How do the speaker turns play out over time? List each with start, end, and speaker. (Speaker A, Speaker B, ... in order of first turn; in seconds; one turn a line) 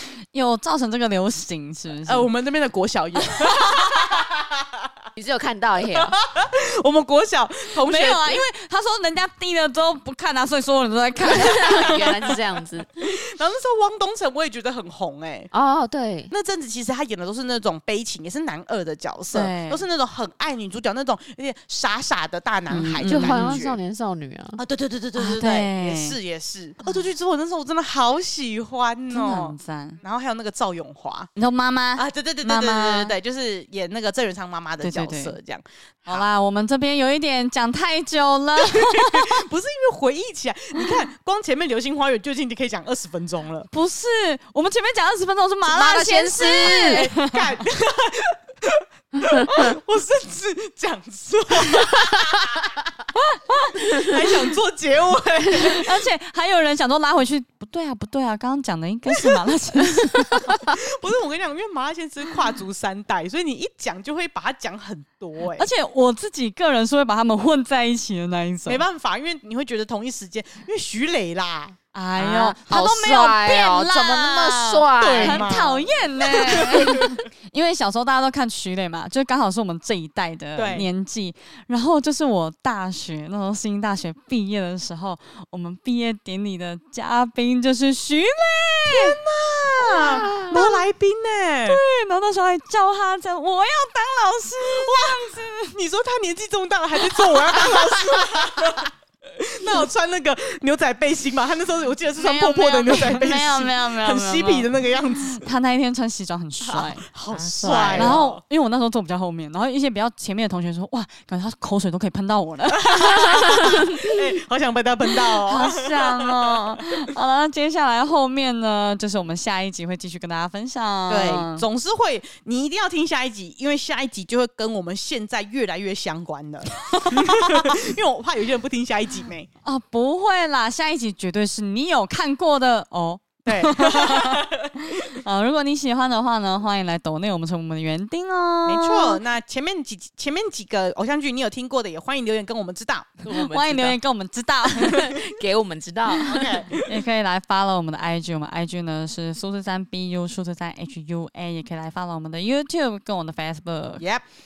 Speaker A: 0.3-2.3
Speaker B: 2.0-4.9
Speaker C: 5.2-6.2
Speaker B: 5.8-8.4
Speaker A: 7.8-12.1
Speaker C: 11.3-12.9
Speaker B: 11.4-12.4
Speaker B: 13.0-15.5
Speaker C: 15.5-16.3
Speaker B: 16.3-23.8
Speaker A: 19.3-19.8
Speaker A: 22.7-23.6
Speaker C: 23.1-24.6
Speaker B: 24.6-31.3
Speaker A: 25.1-26.2
Speaker A: 29.1-30.0
Speaker A: 31.4-33.1
Speaker B: 32.0-36.3
Speaker A: 34.8-35.4
Speaker A: 36.1-39.4
Speaker B: 38.6-43.7
Speaker A: 43.7-47.5
Speaker C: 45.7-47.1
Speaker B: 46.6-52.8
Speaker A: 53.1-53.7
Speaker B: 53.9-56.0
Speaker A: 55.5-60.7
Speaker B: 59.1-65.7
Speaker A: 65.6-68.8
Speaker B: 68.7-72.6
Speaker A: 71.9-89.2
Speaker C: 72.7-75.5
Speaker B: 75.0-77.2
Speaker B: 80.6-80.9
Speaker B: 88.9-91.8
Speaker C: 89.9-90.6
Speaker A: 91.7-95.8
Speaker B: 94.6-105.5
Speaker A: 97.1-97.7
Speaker A: 102.2-107.1
Speaker B: 106.7-108.4
Speaker C: 107.3-108.2
Speaker A: 107.9-114.1
Speaker B: 112.7-116.8
Speaker A: 115.3-121.7
Speaker B: 121.1-129.5
Speaker A: 126.8-127.8
Speaker A: 129.7-139.2
Speaker B: 133.5-135.2
Speaker B: 138.7-143.9
Speaker A: 143.3-145.3
Speaker C: 143.6-143.9
Speaker C: 144.8-146.7
Speaker B: 146.1-146.9
Speaker A: 146.8-154.1
Speaker B: 154.0-154.2